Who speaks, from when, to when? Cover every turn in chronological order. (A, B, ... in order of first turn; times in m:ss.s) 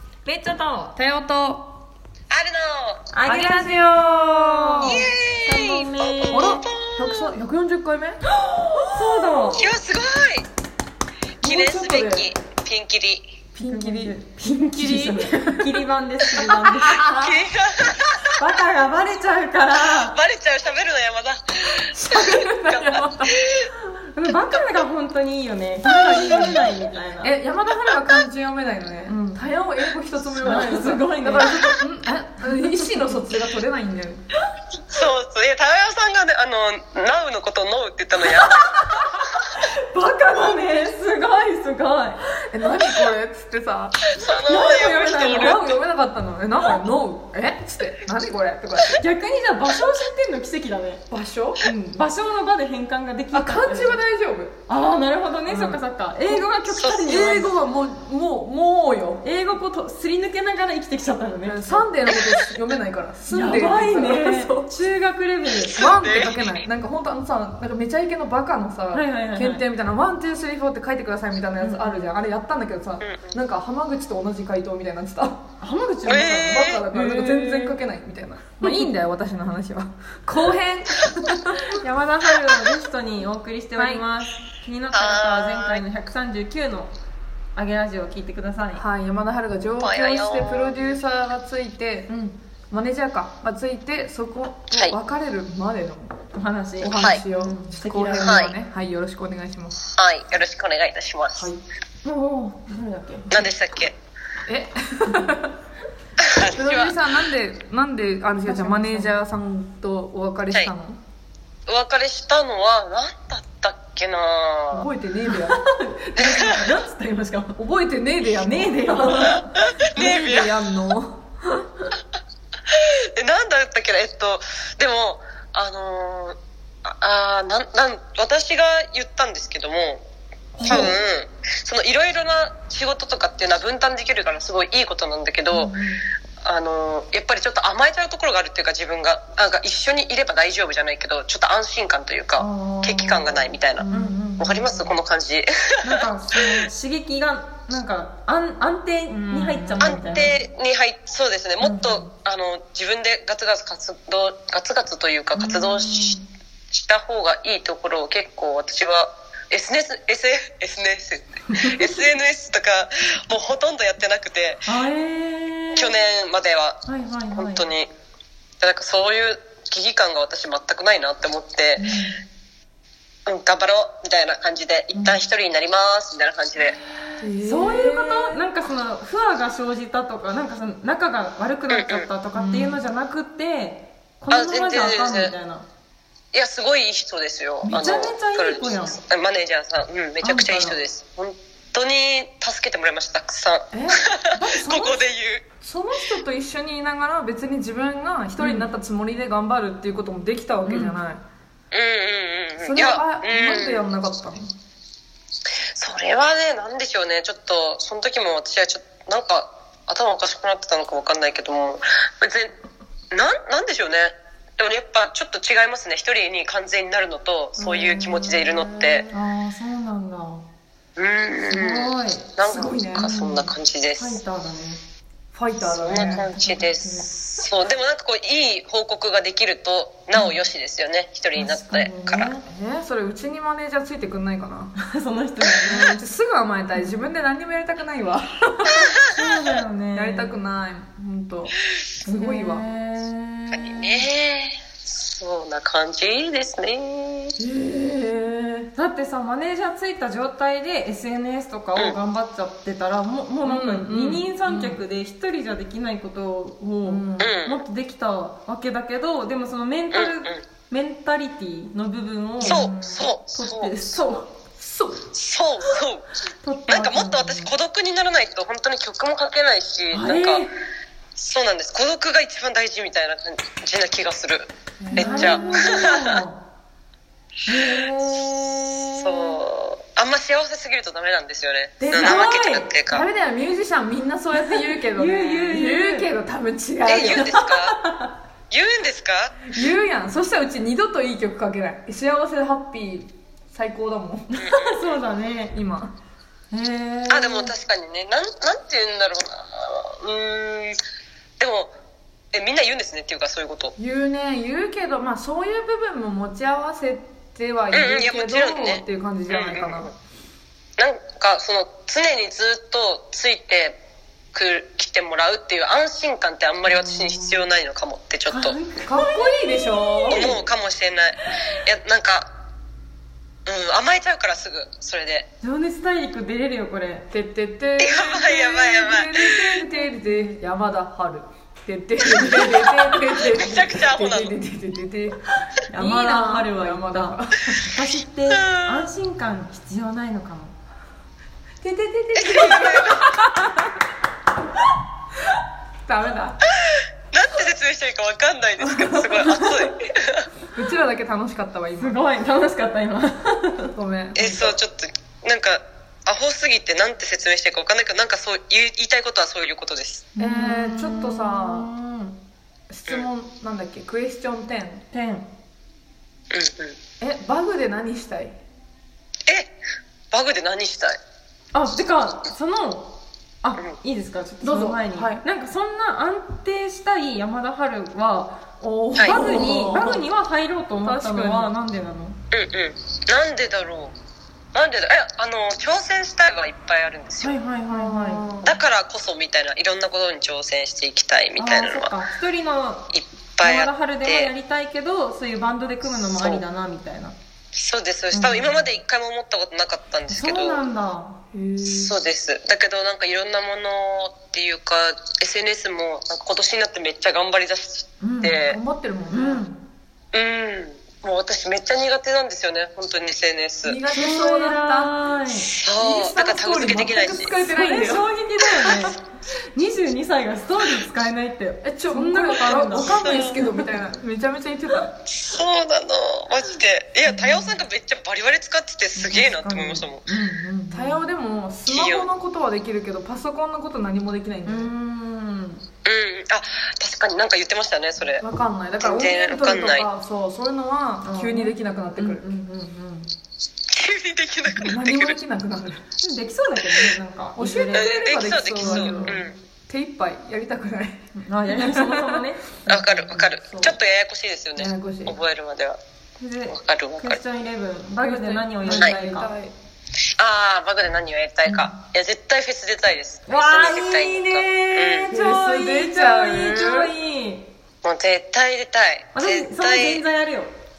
0:00.2-0:01.7 A
0:02.3-0:03.0 B
0:03.1-0:06.6 C
0:03.2-0:05.0 A
0:04.8-0:07.3 B
0:06.3-0:08.2 A
0:08.9-0:09.7 C
0:08.9-0:09.6 A
0:09.6-0:10.4 B
0:11.4-0:12.2 A
0:11.4-0:13.3 B
0:13.5-0:15.7 A
0:13.6-0:17.1 C
0:16.3-0:17.3 A
0:17.1-0:18.3 B
0:18.3-0:20.2 C
0:19.9-0:23.6 B
0:21.9-0:23.4 A
0:24.0-0:27.3 C
0:25.8-0:26.6 A
0:27.2-0:34.2 A
0:29.1-0:29.4 C
0:30.4-0:31.8 C
0:32.4-0:33.0 C
0:34.9-0:38.7 B
0:38.3-0:42.2 C
0:42.5-0:44.0 A
0:44.2-0:45.7 B
0:44.2-0:45.7 C
0:44.7-0:49.0 A
0:48.9-0:51.0 C
0:51.1-0:51.7 A
0:51.6-0:54.0 C
0:53.3-0:54.6 A
0:54.7-0:57.6 C
0:55.5-0:56.5 A
0:56.7-0:57.1 B
0:57.0-0:59.2 A
0:59.2-1:02.2 C
1:01.4-1:04.7 A
1:03.3-1:05.8 C
1:05.6-1:06.6 B
1:05.7-1:15.5 A
1:08.9-1:09.6 C
1:11.6-1:12.0 C
1:13.0-1:13.4 B
1:15.6-1:17.8 C
1:16.0-1:16.8 B
1:16.2-1:21.6 A
1:18.6-1:18.9 C
1:21.7-1:26.9 C
1:23.7-1:24.0 A
1:24.9-1:25.8 B
1:27.5-1:28.8 C
1:28.7-1:32.1 A
1:29.8-1:30.8 B
1:32.1-1:32.4 C
1:32.7-1:36.1 A
1:36.3-1:38.5 C
1:36.8-1:39.8 A
1:36.8-1:37.2 B
1:38.2-1:38.5 B
1:39.9-1:41.5 B
1:42.0-1:43.5 C
1:43.3-1:44.0 B
1:44.4-1:45.5 A
1:46.2-1:46.9 B
1:46.4-1:51.0 A
1:48.4-1:49.1 C
1:51.7-1:54.9 B
1:54.7-1:55.6 A
1:55.3-1:57.6 C
1:56.2-1:56.4 B
1:57.6-1:59.4 A
1:58.3-2:00.1 C
1:59.9-2:01.3 A
1:59.9-2:00.5 B
2:02.7-2:10.0 B
2:10.6-2:10.9 A
2:10.6-2:11.0 C
2:10.6-2:15.8 B
2:15.5-2:16.0 C
2:16.4-2:26.0 B
2:22.4-2:24.9 C
2:23.8-2:24.2 A
2:25.8-2:30.3 C
2:29.1-2:30.2 A
2:29.8-2:36.2 B
2:31.6-2:32.0 C
2:35.3-2:36.2 C
2:36.7-2:44.6 B
2:41.5-2:41.9 C
2:44.6-2:45.9 C
2:45.8-2:47.9 B
2:46.8-2:47.6 C
2:48.6-2:51.9 B
2:51.8-2:52.2 C
2:53.2-2:56.8 B
2:54.9-2:55.2 C
2:57.2-2:58.4 A
2:57.2-3:05.6 C
3:01.7-3:02.1 B
3:02.4-3:02.8 A
3:04.3-3:05.3 B
3:06.3-3:15.4 B
3:07.6-3:09.0 C
3:10.2-3:10.8 C
3:13.7-3:15.0 A
3:15.6-3:21.2 A
3:18.4-3:18.7 C
3:20.7-3:21.0 C
3:21.7-3:23.9 B
3:22.6-3:24.5 A
3:25.8-3:32.5 B
3:33.1-3:39.0 B
3:37.6-3:39.2 A
3:39.1-3:40.4 C
3:41.0-3:44.2 B
3:41.5-3:44.8 C
3:42.4-3:43.1 A
3:45.3-3:46.3 A
3:45.8-3:47.3 C
3:45.8-3:52.3 B
3:51.3-3:52.4 C
3:52.4-3:54.7 A
3:54.8-3:56.0 C
3:55.6-3:58.9 A
3:56.7-3:57.0 C
3:59.1-4:00.4 C
3:59.9-4:02.6 A
4:02.2-4:04.0 C
4:03.5-4:07.3 B
4:07.4-4:08.7 A
4:08.7-4:24.3 C
4:13.4-4:14.8 A
4:16.8-4:17.3 A
4:17.2-4:17.6 B
4:19.9-4:20.4 B
4:22.4-4:23.0 A
4:22.4-4:24.2 B
4:24.6-4:25.1 A
4:25.1-4:26.1 B
4:26.4-4:27.5 C
4:26.7-4:30.5 B
4:29.9-4:30.5 C
4:31.2-4:36.1 B
4:34.8-4:35.7 A
4:34.9-4:36.4 C
4:37.5-4:39.4 C
4:39.0-4:43.0 B
4:41.8-4:42.7 C
4:42.9-4:47.3 A
4:44.4-4:46.1 C
4:46.9-4:47.8 B
4:47.0-4:48.1 C
4:48.5-4:49.4 B
4:49.5-4:54.3 A
4:54.3-4:55.6 C
4:54.4-4:55.0 B
4:55.5-4:55.9 A
4:56.5-4:57.5 C
4:57.1-5:00.8 B
5:01.4-5:01.7 B
5:02.3-5:03.7 B
5:03.8-5:09.9 A
5:07.7-5:09.9 B
5:10.8-5:13.8 B
5:14.3-5:18.6 B
5:16.6-5:17.4 C
5:18.3-5:20.4 C
5:18.8-5:20.3 A
5:20.1-5:22.3 B
5:23.4-5:25.2 B
5:25.4-5:27.1 C
5:27.1-5:35.2 A
5:27.8-5:29.4 B
5:29.8-5:30.4 C
5:32.2-5:33.0 C
5:33.2-5:34.3 B
5:35.5-5:40.5 C
5:35.7-5:37.7 A
5:38.3-5:38.8 B
5:41.6-5:43.7 A
5:42.1-5:43.1 B
5:42.2-5:42.6 C
5:45.8-5:46.4 A
5:46.6-5:50.3 B
5:49.1-5:49.7 C
5:50.5-5:52.0 A
5:51.8-5:53.7 C
5:53.7-5:54.6 A
5:54.1-6:00.0 B
6:00.2-6:02.2 C
6:00.2-6:01.7 A
6:02.7-6:04.8 A
6:04.9-6:05.3 C
6:06.3-6:06.8 B
6:07.0-6:08.4 A
6:09.3-6:09.5 B
6:10.1-6:11.0 B
6:11.5-6:18.4 C
6:14.4-6:15.2 A
6:18.6-6:20.0 A
6:19.0-6:19.4 B
6:19.0-6:22.2 C
6:20.8-6:21.5 A
6:22.3-6:23.9 B
6:24.5-6:27.4 B
6:27.2-6:28.2 C
6:27.7-6:28.5 A
6:28.4-6:31.9 B
6:31.4-6:37.2 C
6:32.9-6:34.3 B
6:36.0-6:36.4 B
6:37.5-6:40.6 B
6:38.1-6:38.7 C
6:40.1-6:41.2 C
6:41.3-6:42.0 A
6:41.6-6:48.6 B
6:48.0-6:48.4 C
6:48.4-6:49.4 A
6:49.1-6:49.6 C
6:50.1-6:53.8 B
6:53.6-6:54.9 A
6:53.9-6:55.5 C
6:55.4-6:57.4 B
6:55.8-6:58.1 A
6:57.4-7:03.2 C
6:58.4-6:58.9 B
7:01.6-7:04.9 A
7:02.8-7:03.5 B
7:05.1-7:10.0 B
7:07.0-7:07.6 C
7:08.9-7:11.0 C
7:10.7-7:14.7 A
7:11.7-7:12.1 B
7:14.4-7:15.6 C
7:15.8-7:18.2 B
7:18.2-7:22.2 A
7:18.8-7:19.9 B
7:21.0-7:23.1 C
7:23.7-7:25.2 B
7:24.6-7:25.8 A
7:26.0-7:29.2 C
7:27.3-7:32.2 A
7:27.7-7:29.4 B
7:31.2-7:33.0 C
7:32.7-7:35.8 B
7:33.2-7:33.8 A
7:34.6-7:35.1 A
7:36.2-7:39.3 C
7:36.5-7:37.2 B
7:38.0-7:39.5 A
7:40.2-7:45.1 B
7:43.3-7:47.5 C
7:45.1-7:46.9 A
7:47.8-7:50.0 B
7:49.1-7:50.5 C